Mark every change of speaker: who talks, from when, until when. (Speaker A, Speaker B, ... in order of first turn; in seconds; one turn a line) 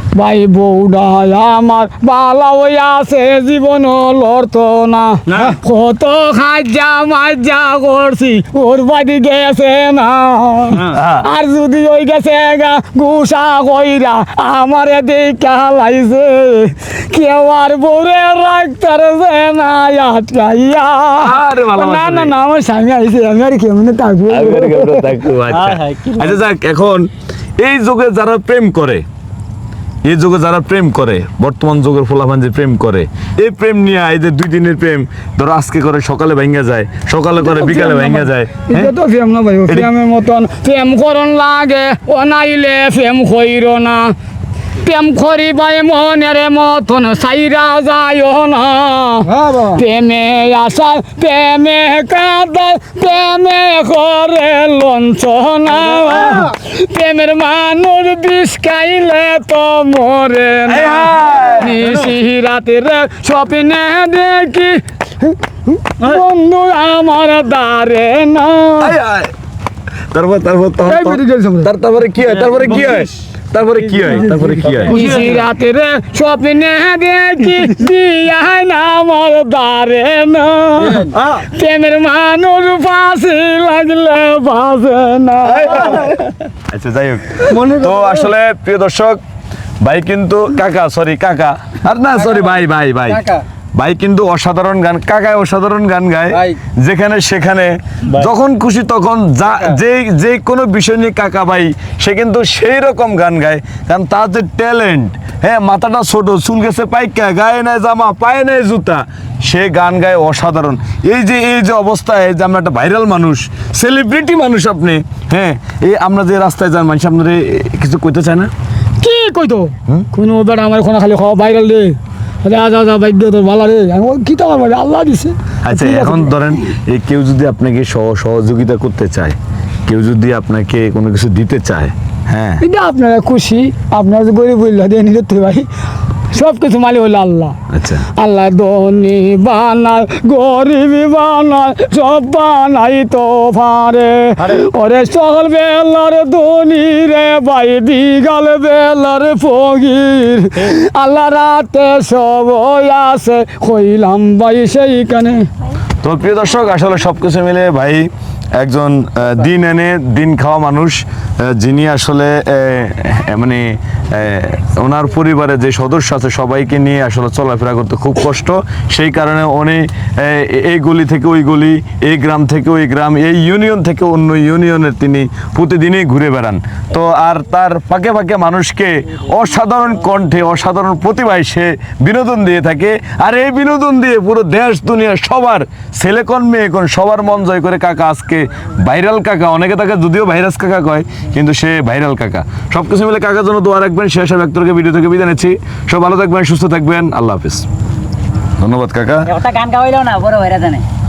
Speaker A: 0.1-25.2
Speaker B: 10.8-11.3
Speaker B: 21.2-22.3
Speaker B: 24.3-29.0
Speaker C: 25.5-26.4
Speaker B: 30.1-38.9
Speaker A: 37.5-44.1
Speaker A: 44.8-69.0
Speaker B: 60.7-61.9
Speaker B: 68.8-69.3
Speaker B: 70.1-75.1
Speaker A: 70.8-71.7
Speaker A: 74.9-86.2
Speaker B: 85.5-89.2
Speaker B: 89.8-118.5
Speaker A: 119.0-126.4
Speaker B: 125.6-132.6
Speaker A: 132.6-135.7
Speaker A: 136.3-155.5
Speaker B: 137.7-138.1
Speaker B: 156.0-158.1
Speaker B: 158.6-197.7
Speaker B: 198.6-199.3
Speaker C: 199.2-200.8